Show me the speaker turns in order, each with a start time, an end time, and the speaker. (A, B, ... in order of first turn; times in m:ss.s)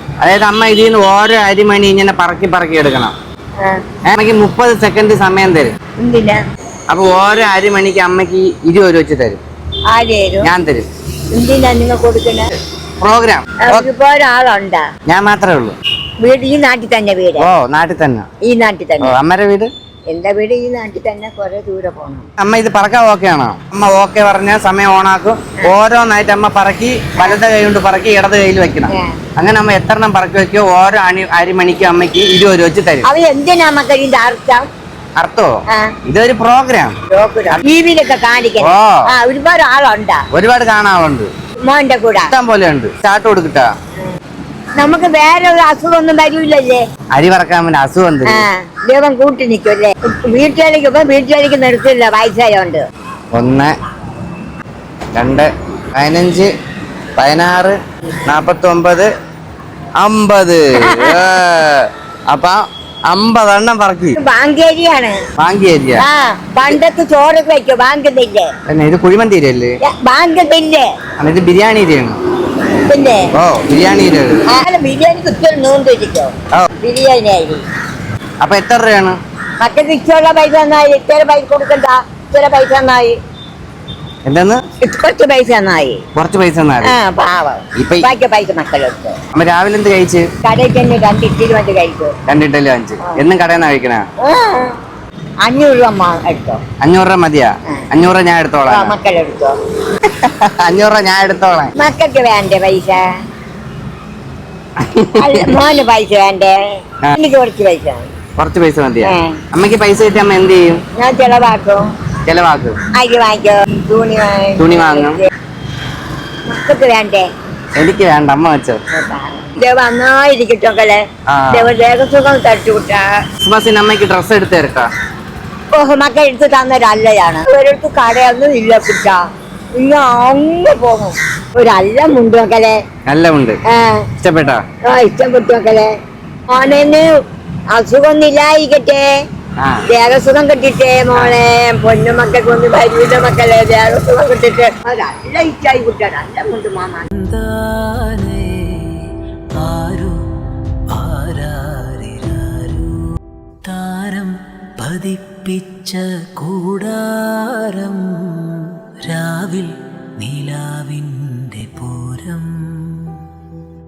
0:00.2-0:03.1 A
0:04.1-0:05.7 A
0:06.0-0:06.4 B
0:06.9-0:09.4 A
0:09.9-0:10.5 B
0:10.4-0:10.8 A
0:11.3-0:12.5 B
0:13.0-0:13.9 A
0:13.6-0:14.8 B
0:15.1-0:15.8 A
0:16.2-0:17.5 B
0:17.4-0:18.2 A
0:18.4-0:19.1 B
0:19.0-0:19.7 A
0:20.1-0:22.2 B
0:22.4-0:33.1 A
0:28.9-0:29.2 B
0:33.0-0:34.6 B
0:35.2-0:35.5 A
0:35.7-0:35.9 B
0:36.0-0:37.0 A
0:37.1-0:40.2 B
0:38.6-0:39.1 A
0:40.3-0:41.3 A
0:41.7-0:42.3 B
0:42.3-0:43.7 A
0:44.8-0:46.8 B
0:47.1-0:48.4 A
0:48.2-0:52.8 B
0:53.3-0:53.7 A
0:55.1-0:56.5 A
0:57.2-0:59.1 A
1:00.0-1:04.2 A
1:00.8-1:01.2 B
1:04.2-1:05.2 B
1:05.4-1:06.0 A
1:06.0-1:08.5 B
1:08.7-1:09.7 A
1:09.8-1:10.9 B
1:11.2-1:12.2 A
1:12.7-1:13.3 B
1:13.3-1:14.4 A
1:14.5-1:17.6 B
1:18.4-1:19.2 A
1:19.6-1:23.2 B
1:24.2-1:24.6 A
1:24.8-1:26.0 B
1:26.1-1:27.0 A
1:26.8-1:29.2 B
1:27.8-1:28.1 A
1:29.3-1:30.3 A
1:30.4-1:32.1 B
1:32.3-1:34.0 A
1:34.2-1:34.8 B
1:35.4-1:36.6 B
1:36.8-1:38.9 A
1:38.7-1:39.5 B
1:40.0-1:41.7 A
1:41.8-1:43.0 B
1:44.8-1:45.6 A
1:45.2-1:46.6 B
1:47.1-1:48.1 B
1:48.4-1:50.8 A
1:49.0-1:49.4 B
1:51.0-1:51.9 B
1:52.2-1:52.8 A
1:52.9-1:55.3 B
1:54.6-1:55.2 A
1:56.5-1:57.3 B
1:57.8-1:58.8 A
1:58.9-2:03.2 B
2:01.3-2:01.7 A
2:03.4-2:04.9 A
2:05.7-2:09.2 B
2:09.8-2:12.8 B
2:13.0-2:13.6 A
2:13.7-2:14.1 B
2:14.2-2:14.6 A
2:14.9-2:15.9 B
2:16.5-2:17.1 B
2:17.7-2:19.1 B
2:19.6-2:19.8 A
2:19.9-2:27.1 B
2:21.1-2:21.4 A
2:27.1-2:30.2 C
2:30.9-2:32.9 C
2:33.6-2:43.2 C